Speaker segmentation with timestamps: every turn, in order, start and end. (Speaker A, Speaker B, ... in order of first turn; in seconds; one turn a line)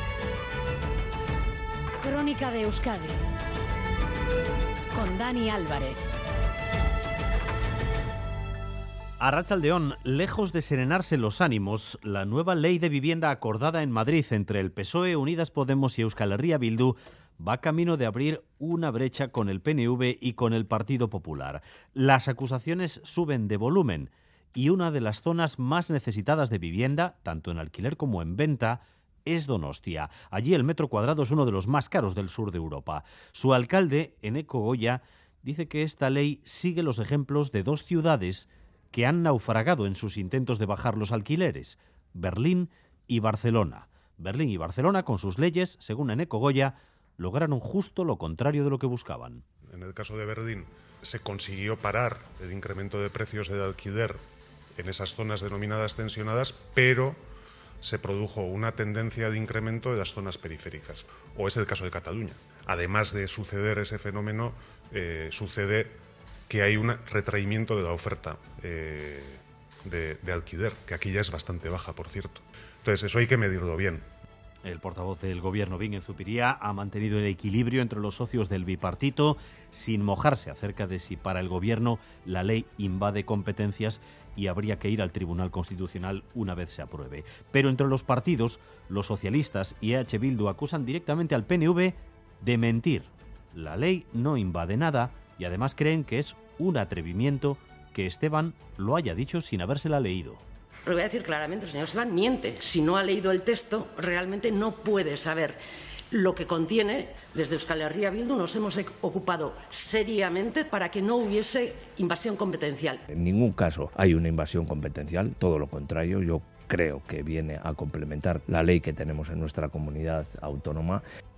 Speaker A: 2.0-3.2
Speaker A: 4.9-6.0
Speaker B: 9.2-49.4
Speaker C: 49.7-54.2
Speaker C: 54.8-57.2
Speaker C: 57.8-65.9
Speaker C: 66.5-74.0
Speaker B: 74.6-100.4
Speaker D: 100.9-105.6
Speaker D: 106.1-113.0
Speaker E: 113.1-121.0